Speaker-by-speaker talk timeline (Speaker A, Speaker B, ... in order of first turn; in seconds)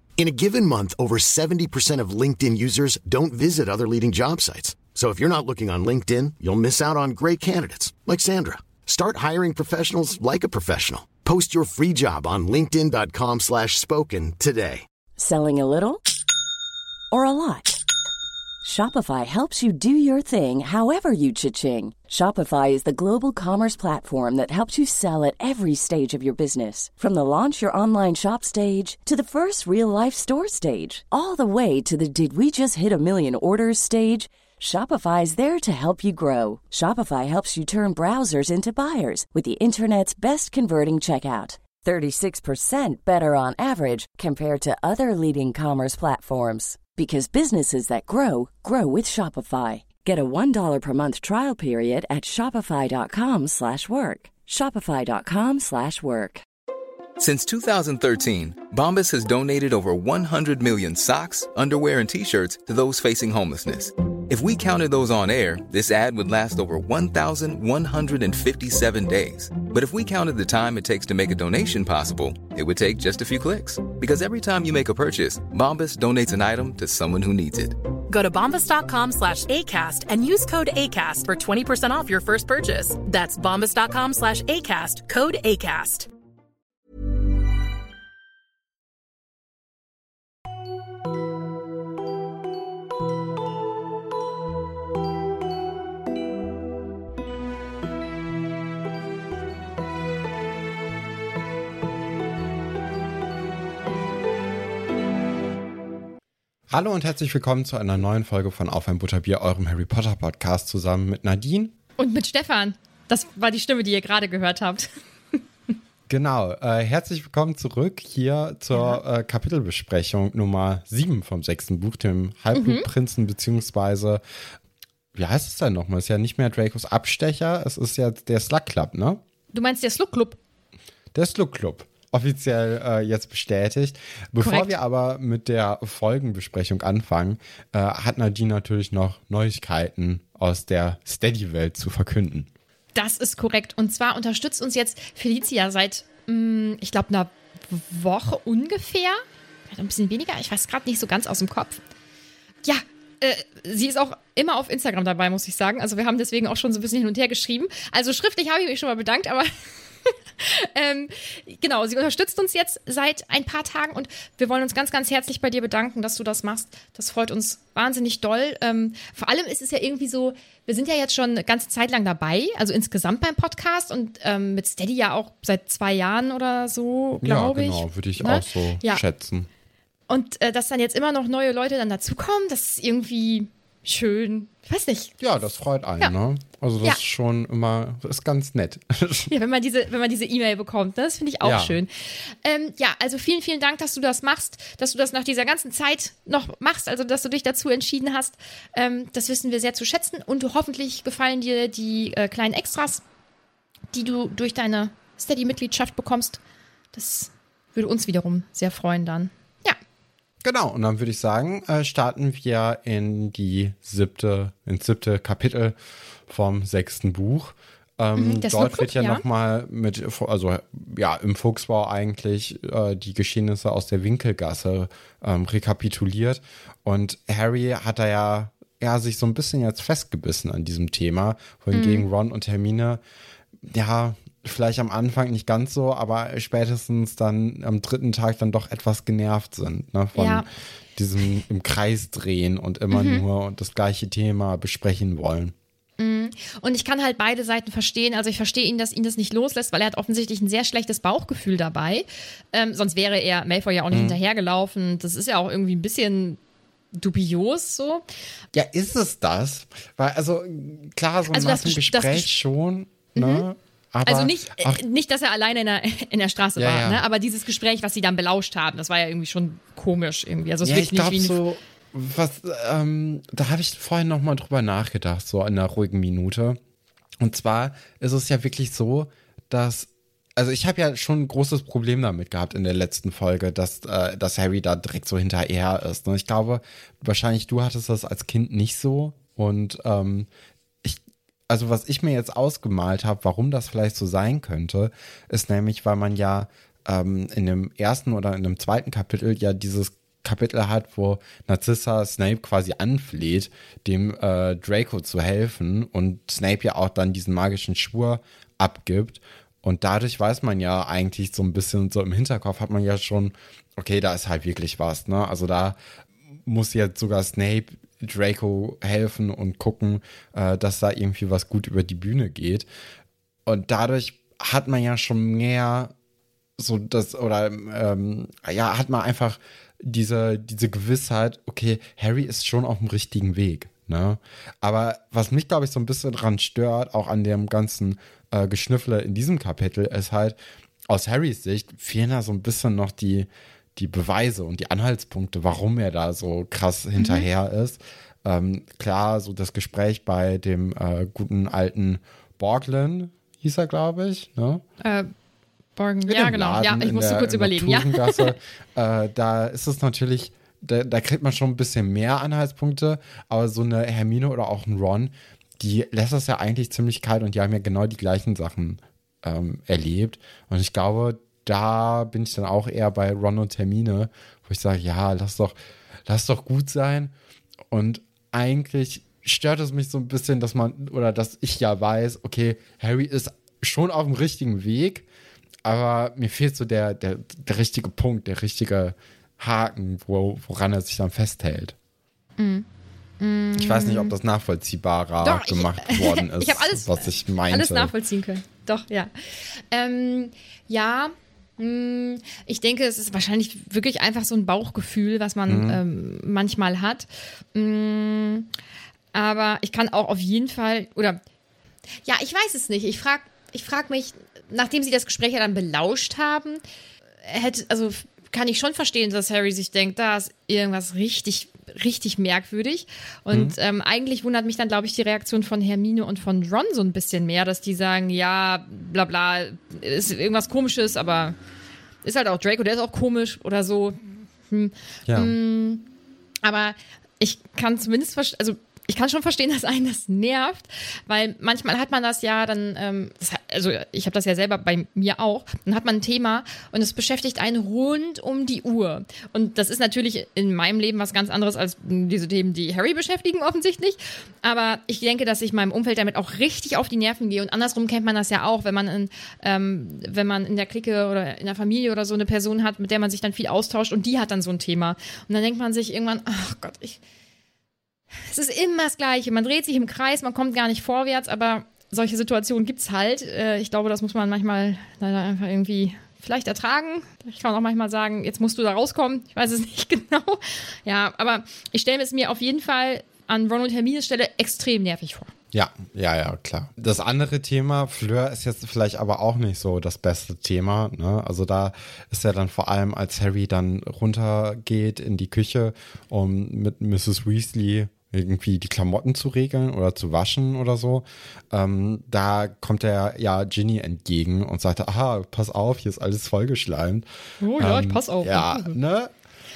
Speaker A: 0.2-14.9
Speaker B: 15.2-16.0, 17.1-17.8, 18.6-56.4
Speaker C: 57.2-77.8
Speaker D: 78.1-86.1
Speaker E: 106.7-111.7, 116.1-124.2, 125.1-129.2, 131.1-142.5, 177.2-179.5, 185.2-189.3, 191.4-191.8, 210.4-233.0, 233.6-245.5, 253.9-254.2, 258.5-264.8, 266.6-267.0, 270.6-276.6, 277.2-290.3, 290.8-315.8, 316.5-322.7, 323.5-325.9, 326.6-340.4, 340.9-354.6, 356.1-375.6, 376.1-377.1, 377.7-385.1, 385.6-391.8, 393.6-397.9, 405.5-405.8, 423.3-423.6, 435.1-435.4, 485.5-507.1, 507.6-509.1
Speaker F: 112.0-114.9, 118.7-119.0, 122.5-122.9, 129.5-130.4, 134.4-134.7, 142.9-151.8, 152.6-159.5, 160.1-179.0, 180.1-185.1, 189.3-203.0, 203.9-206.4, 206.9-209.8, 218.2-219.2, 231.7-232.1, 240.2-240.5, 242.9-243.2, 246.0-256.4, 256.9-258.0, 261.3-262.3, 263.1-263.5, 264.1-271.4, 347.0-347.3, 354.8-355.1, 355.8-358.3, 392.4-392.7, 393.2-394.1, 395.2-399.1, 399.7-408.5, 409.1-411.2, 412.1-416.6, 417.2-431.4, 432.0-435.9, 436.4-467.0, 468.3-485.3, 507.4-508.8